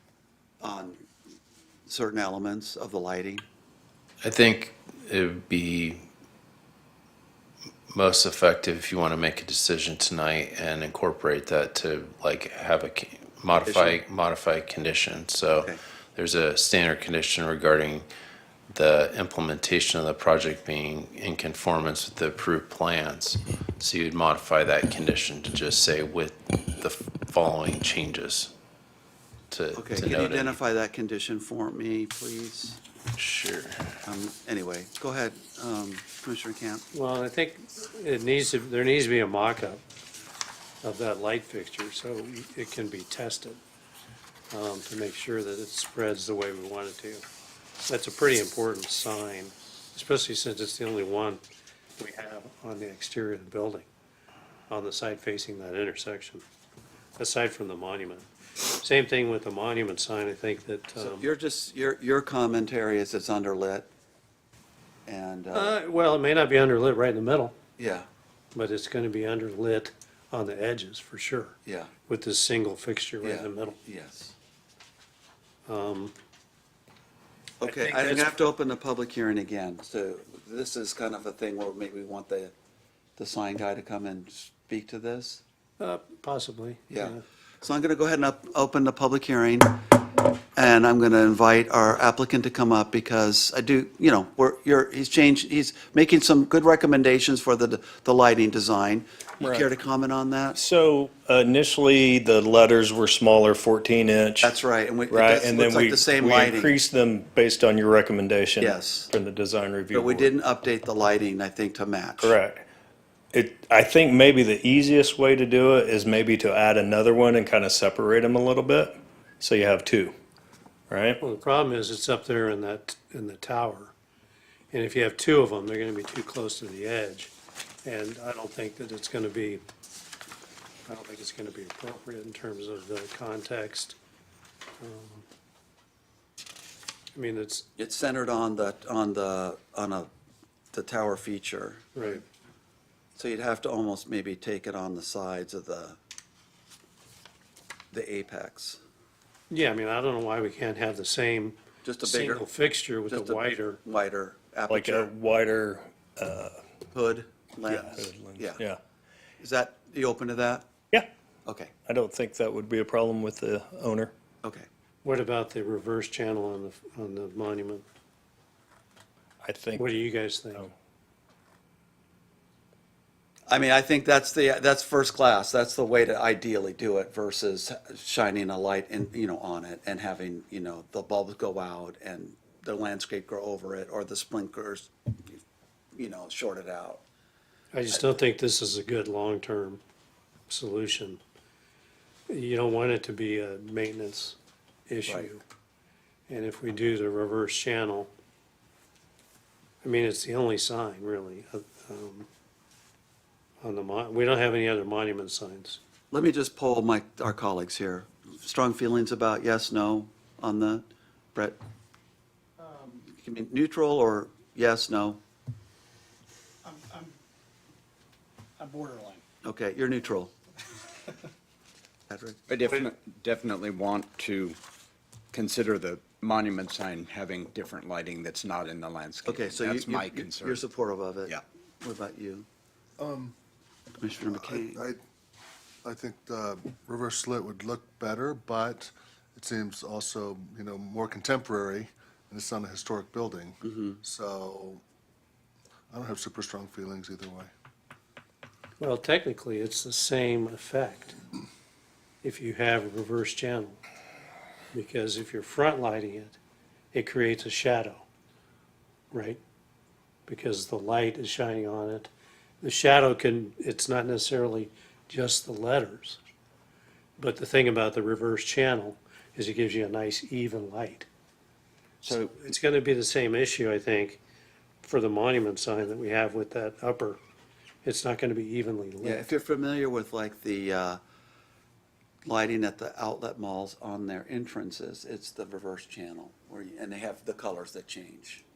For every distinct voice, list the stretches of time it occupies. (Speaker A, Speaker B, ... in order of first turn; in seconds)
Speaker A: 0.6-1.0, 1.9-3.5, 13.7-14.0, 29.8-32.8, 34.0-36.9, 61.0-63.9, 65.1-65.8, 67.8-68.1, 71.7-71.9, 73.2-74.3, 77.6-82.5, 83.2-85.4, 86.9-89.8, 90.6-100.6, 104.4-106.7, 108.6-109.1, 109.9-112.4, 137.8-140.1, 140.7-142.2, 143.2-146.0, 147.9-148.8, 151.8-152.5, 153.1-155.1, 156.9-158.6, 159.4-160.7, 161.4-161.7, 173.5-185.4, 185.9-187.0, 206.1-211.6, 213.1-215.2, 219.4-220.3, 222.1-222.4, 229.2-232.5, 234.0-234.8, 243.7-244.0, 279.0-281.0, 282.2-288.4
Speaker B: 4.2-6.1, 7.9-18.1, 18.7-28.5, 29.5-30.6, 33.2-33.9
Speaker C: 36.9-39.8, 40.8-43.6, 44.5-47.2, 47.8-51.4, 52.0-53.9, 54.7-56.5, 57.2-58.3, 58.8-61.3, 65.5-67.5, 68.5-73.8, 75.7-76.1, 77.6-78.4, 85.8-87.2, 121.2-123.9, 124.7-127.3, 127.8-129.6, 130.9-134.0, 134.8-135.3, 137.1-137.7, 141.9-142.2, 149.5-153.8, 165.0-167.8, 169.8-170.7, 187.7-189.8, 190.5-191.2, 192.3-194.4, 194.9-195.4, 196.3-198.1, 199.8-202.3, 203.6-205.8, 248.8-251.2, 252.2-253.8, 254.7-256.4, 256.9-258.1, 259.1-259.4, 260.3-262.1, 262.6-266.2, 267.2-271.1, 272.1-274.2, 274.8-277.2, 277.8-279.3
Speaker D: 99.4-99.7, 100.5-104.5, 105.1-110.3, 112.2-112.7, 113.3-120.1, 120.9-121.2, 154.7-156.6, 157.7-158.8, 161.9-164.1, 169.4-169.9
Speaker E: 222.5-224.6, 225.3-230.7
Speaker F: 233.0-233.4, 234.3-235.0, 235.8-244.8, 245.9-247.5